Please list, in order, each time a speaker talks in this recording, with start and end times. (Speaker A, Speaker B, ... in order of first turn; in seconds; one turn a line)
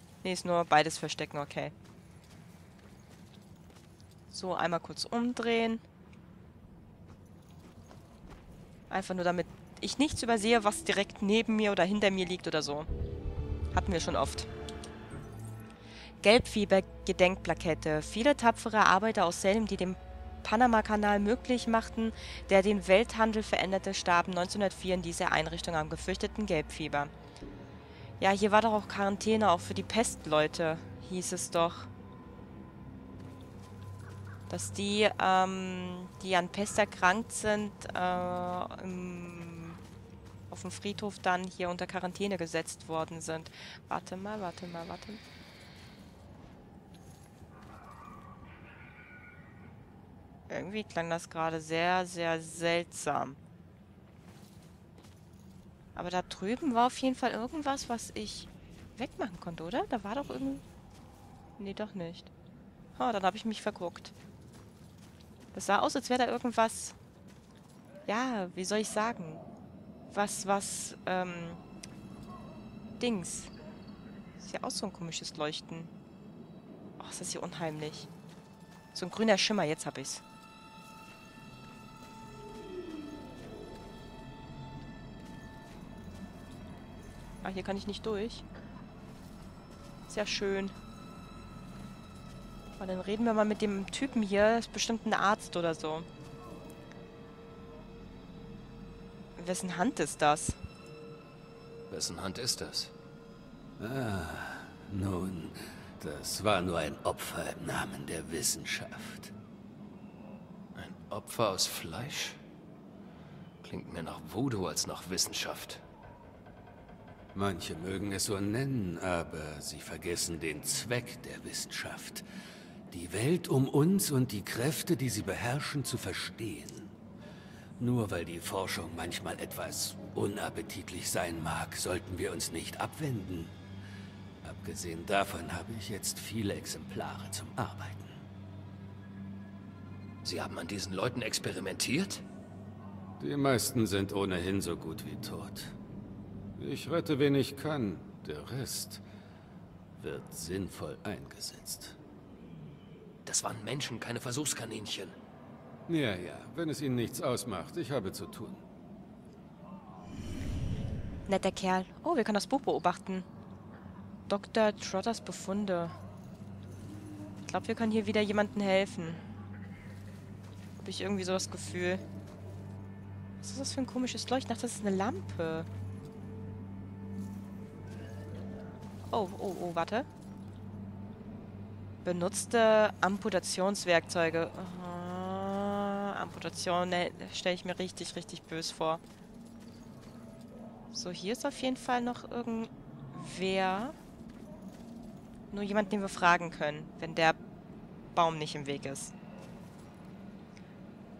Speaker A: 0.2-1.7
Speaker A: 4.3-5.8
Speaker A: 8.9-12.9
Speaker A: 13.7-14.5
Speaker A: 16.2-27.1
Speaker A: 28.2-31.9
Speaker A: 34.5-39.8
Speaker A: 40.5-45.2
Speaker A: 50.5-53.4
Speaker A: 56.0-60.6
Speaker A: 61.6-62.3
Speaker A: 63.0-64.1
Speaker A: 65.5-67.0
Speaker A: 68.1-69.4
Speaker A: 70.1-71.6
Speaker A: 73.0-73.5
Speaker A: 74.4-75.9
Speaker A: 77.0-78.1
Speaker A: 78.9-80.2
Speaker A: 87.4-88.5
Speaker A: 90.1-90.7
Speaker A: 92.8-96.1
Speaker A: 99.4-100.6
Speaker B: 101.9-102.9
Speaker C: 103.8-109.3
Speaker B: 110.8-112.4
Speaker B: 113.6-115.8
Speaker C: 117.3-122.2
Speaker C: 122.9-126.9
Speaker C: 127.8-133.5
Speaker C: 134.4-138.2
Speaker B: 140.2-142.2
Speaker C: 143.2-145.8
Speaker C: 146.6-149.0
Speaker C: 150.0-152.0
Speaker B: 153.3-155.2
Speaker C: 155.9-158.6
Speaker A: 161.3-163.3
Speaker A: 164.3-166.0
Speaker A: 167.5-169.2
Speaker A: 170.8-172.0
Speaker A: 173.4-175.7
Speaker A: 179.1-180.1
Speaker A: 182.0-189.0
Speaker A: 190.9-194.0
Speaker A: 195.5-197.4
Speaker A: 198.2-199.1